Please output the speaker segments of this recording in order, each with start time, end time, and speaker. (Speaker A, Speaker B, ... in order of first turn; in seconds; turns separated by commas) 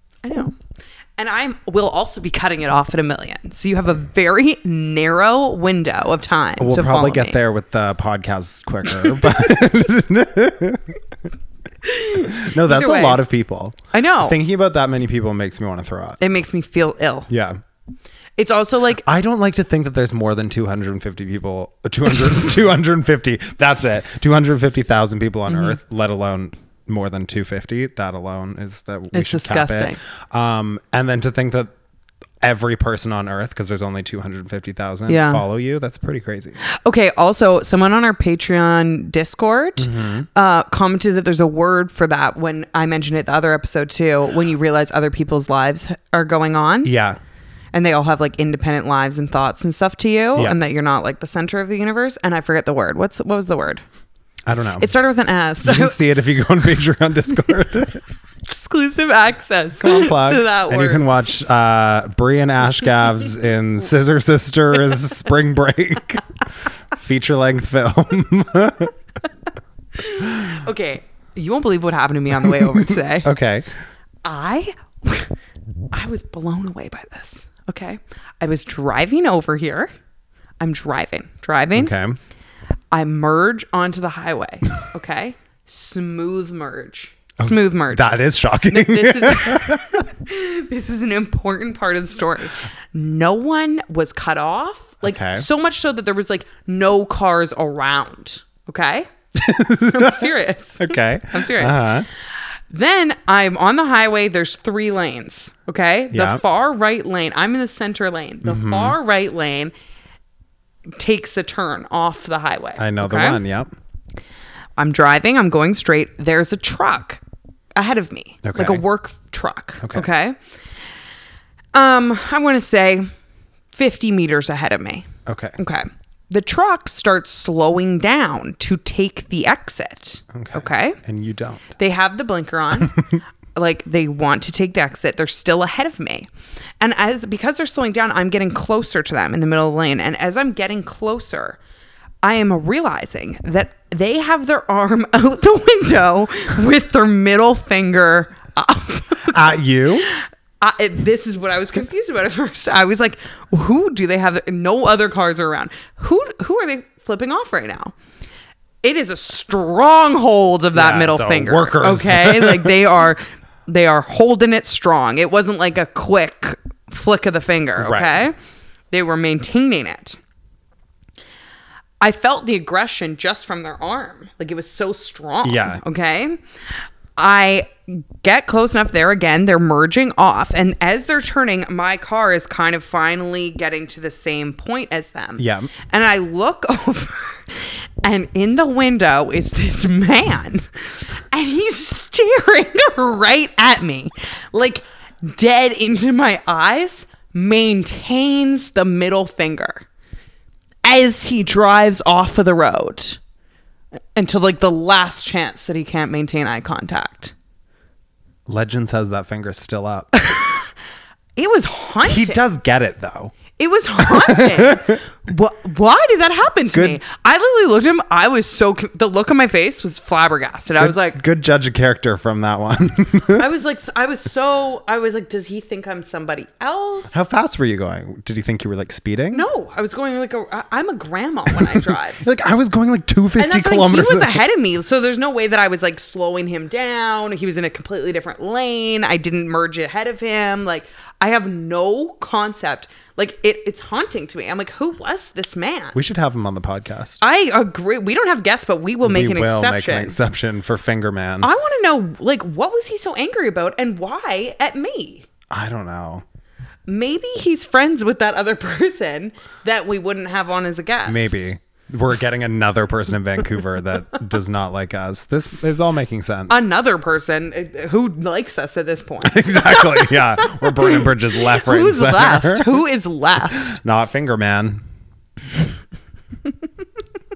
Speaker A: 0.2-0.5, Speaker A: 1.2-7.4, Speaker B: 6.6-11.0, Speaker A: 11.8-13.2, Speaker B: 12.2-16.2, Speaker A: 13.9-14.4, Speaker A: 16.2-17.3, Speaker B: 17.3-17.6, Speaker A: 18.4-19.1, Speaker B: 19.0-31.7, Speaker A: 25.5-25.8, Speaker A: 29.1-30.0, Speaker B: 32.4-36.6, Speaker A: 35.1-35.4, Speaker A: 36.6-46.9, Speaker B: 39.8-40.3, Speaker B: 46.8-47.2, Speaker A: 47.7-53.8, Speaker B: 54.5-54.9, Speaker A: 54.8-56.0, Speaker B: 55.6-58.0, Speaker A: 58.5-61.1, Speaker B: 59.8-66.2, Speaker B: 66.9-68.9, Speaker A: 70.0-73.3, Speaker B: 72.4-73.7, Speaker A: 74.2-75.3, Speaker A: 75.9-79.9, Speaker A: 80.6-81.9, Speaker B: 81.8-82.2, Speaker A: 82.9-88.1, Speaker B: 87.4-90.0, Speaker A: 88.7-99.1, Speaker B: 95.0-95.5, Speaker B: 99.3-102.1, Speaker A: 99.9-102.0, Speaker A: 102.7-109.7, Speaker B: 106.1-106.4, Speaker B: 108.4-109.0, Speaker A: 110.9-113.4, Speaker B: 112.8-113.7, Speaker A: 114.8-117.2, Speaker A: 117.8-120.4, Speaker B: 118.4-118.8, Speaker B: 119.8-120.1, Speaker A: 121.7-123.1, Speaker A: 123.7-125.1, Speaker B: 125.3-125.6, Speaker A: 125.6-131.0, Speaker B: 130.3-131.7, Speaker A: 131.8-133.0, Speaker A: 133.6-136.3, Speaker A: 136.8-141.6, Speaker A: 142.2-157.9, Speaker B: 149.3-150.1, Speaker A: 158.8-168.3, Speaker B: 160.7-162.8, Speaker B: 167.8-168.2, Speaker A: 168.9-170.2, Speaker A: 172.0-176.4, Speaker B: 175.4-175.8, Speaker A: 177.2-199.9, Speaker B: 185.4-185.7, Speaker A: 200.8-203.2, Speaker A: 204.2-207.3, Speaker B: 208.5-210.1, Speaker A: 210.2-210.7, Speaker A: 211.4-212.4, Speaker B: 212.0-213.4, Speaker A: 213.6-221.2, Speaker B: 214.0-215.0, Speaker B: 216.7-217.0, Speaker B: 220.8-223.5, Speaker A: 223.3-227.3, Speaker B: 227.1-229.4, Speaker A: 229.3-232.2, Speaker B: 232.2-234.4, Speaker A: 233.4-246.0, Speaker B: 245.9-247.2, Speaker A: 247.2-250.2, Speaker B: 249.0-251.5, Speaker A: 251.4-255.3, Speaker B: 255.5-256.2, Speaker A: 256.9-261.4, Speaker B: 261.1-266.7, Speaker A: 266.5-273.8, Speaker B: 269.2-272.8, Speaker B: 273.6-274.8